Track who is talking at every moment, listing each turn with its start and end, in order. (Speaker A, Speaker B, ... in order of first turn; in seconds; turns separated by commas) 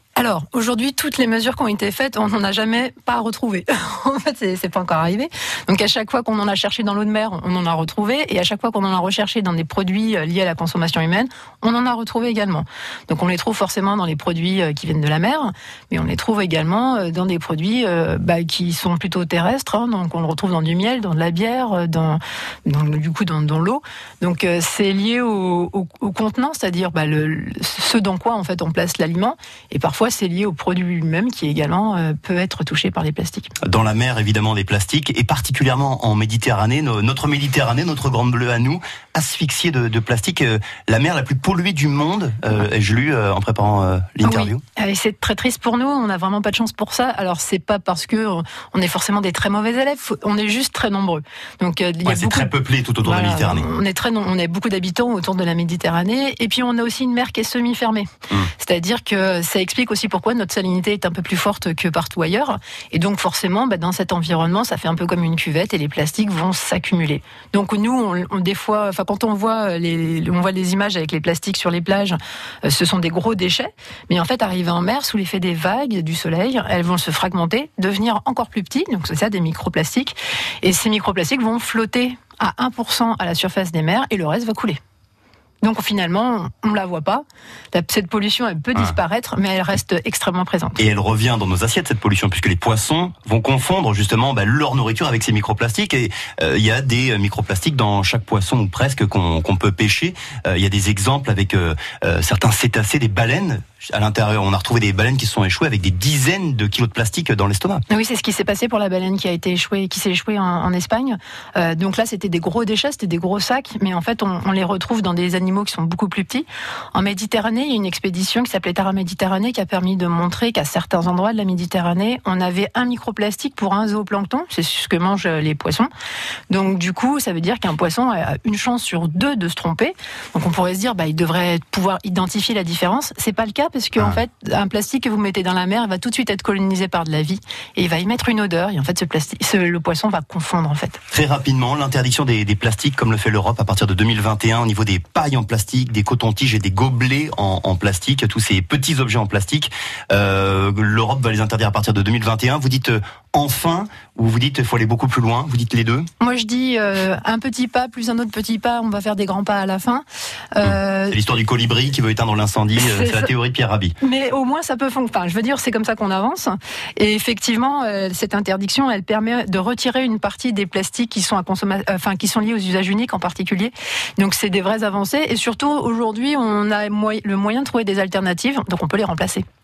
Speaker A: 0.2-33.5, Speaker B: 33.6-44.6, Speaker A: 44.2-84.8, Speaker B: 52.0-53.7, Speaker A: 85.6-90.8, Speaker B: 90.8-107.8, Speaker A: 107.9-125.9, Speaker A: 126.5-141.0, Speaker B: 141.1-156.1, Speaker A: 156.2-161.2, Speaker B: 160.7-163.9, Speaker A: 162.8-163.3, Speaker A: 164.0-179.4